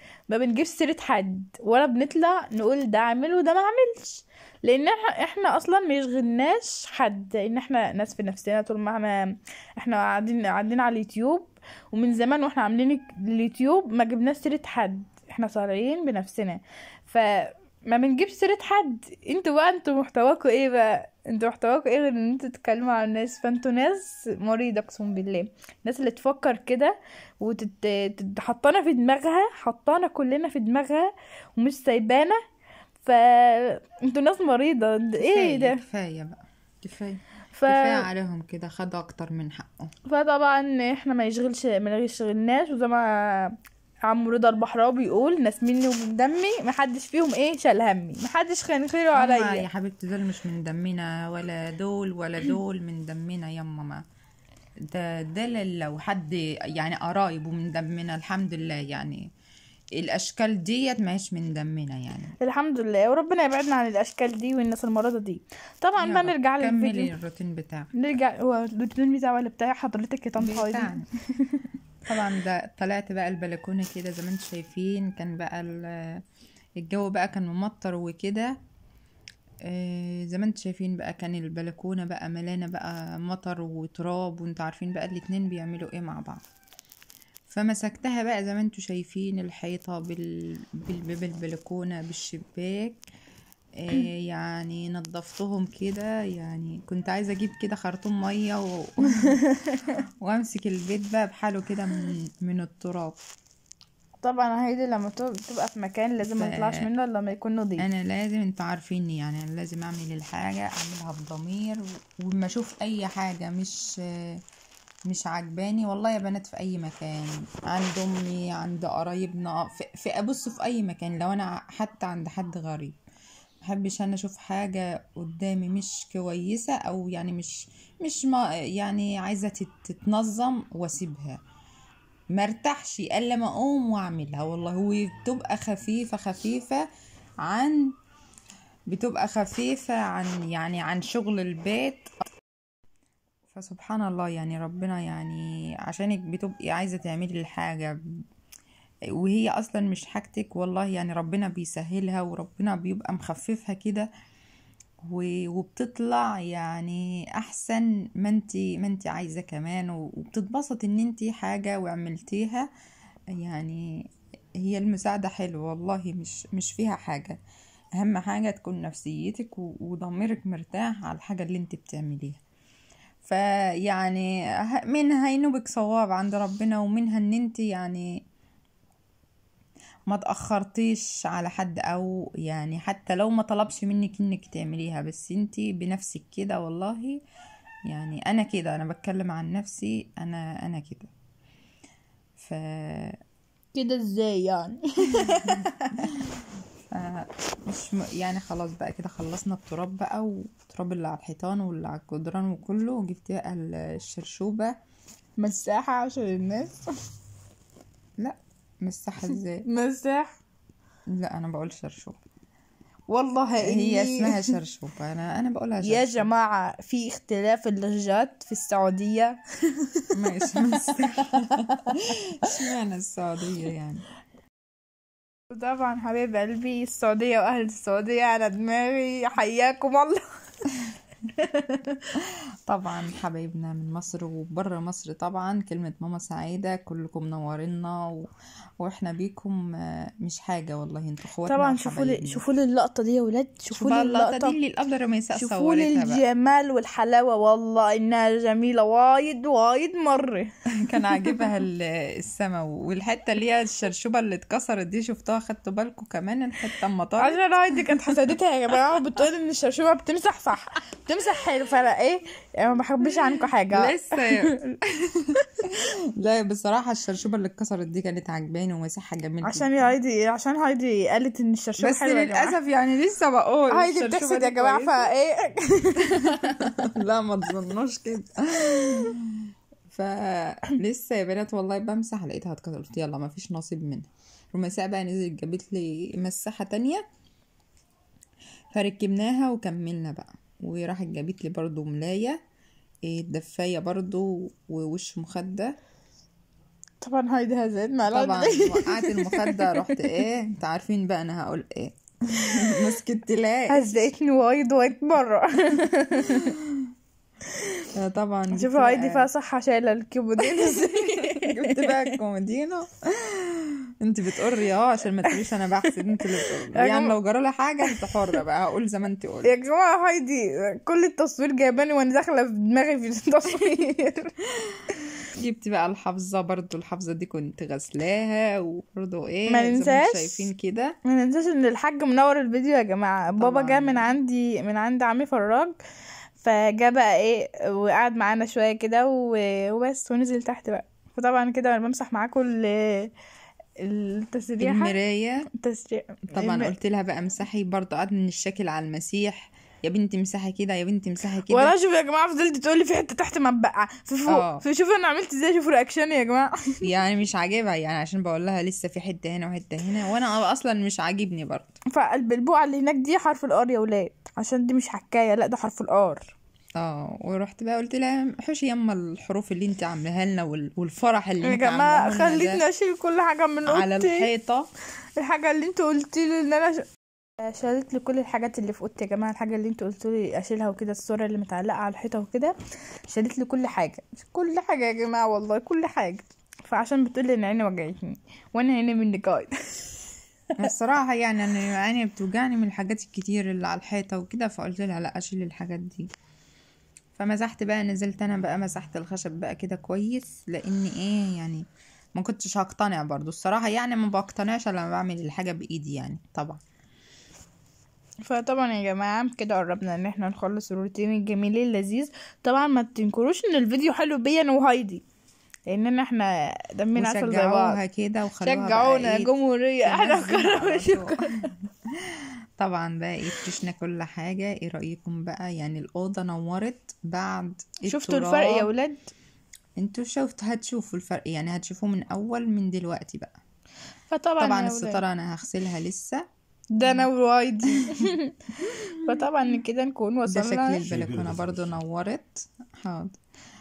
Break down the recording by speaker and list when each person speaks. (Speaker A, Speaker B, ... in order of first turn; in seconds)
Speaker A: 0.3-32.4, 33.0-35.8, 37.5-38.1, 40.1-43.5, 44.1-49.7, 62.4-67.1, 68.0-71.7, 99.1-99.8, 104.2-107.9, 193.7-195.9, 205.4-206.9, 209.7-210.4, 213.1-214.5, 215.8-220.1, 225.5-230.2, 231.4-232.0, 241.5-244.6, 245.3-250.5, 251.2-251.5, 257.2-264.6, 269.4-272.6, 273.7-276.9, 297.0-300.2, 303.7-306.6, 308.5-312.1, 316.8-317.1, 319.4-324.3, 329.5-330.4, 331.1-335.8, 336.4-343.1, 343.8-345.0, 345.6-346.7, 351.5-356.6, 361.9-366.3, 371.4-374.3, 375.2-376.9, 377.4-382.6, 383.1-389.5, 408.2-415.0, 415.7-417.8, 418.4-421.5, 427.9-429.1, 434.1-435.0, 436.7-438.4, 439.0-440.8
Speaker B: 35.2-39.9, 49.1-54.0, 54.9-59.2, 60.0-62.3, 66.0-67.9, 70.4-71.1, 72.1-76.2, 76.8-78.6, 79.7-86.4, 87.5-93.0, 93.8-99.4, 100.2-103.2, 106.3-106.9, 107.8-114.4, 115.1-123.0, 123.7-131.4, 132.4-136.8, 137.4-137.9, 138.9-142.1, 143.5-148.0, 149.2-154.1, 155.1-162.7, 163.4-164.1, 164.6-167.4, 168.0-172.4, 173.2-178.2, 180.1-187.2, 187.9-191.1, 192.4-193.2, 196.9-204.7, 208.2-209.7, 211.1-212.2, 213.6-216.3, 220.1-224.1, 232.7-238.3, 238.8-242.4, 243.7-246.2, 250.8-257.4, 263.7-264.6, 265.7-269.9, 271.8-275.1, 276.1-287.0, 288.7-292.4, 293.1-295.8, 298.1-304.1, 308.0-309.3, 310.4-319.5, 325.3-331.0, 333.4-334.1, 344.6-345.4, 346.3-351.7, 354.3-354.6, 356.8-361.8, 366.8-372.6, 373.7-374.7, 390.6-396.1, 397.2-401.6, 402.2-406.6, 416.9-419.3, 419.8-421.2, 422.6-428.7, 429.8-433.4, 434.4-436.2, 440.3-443.2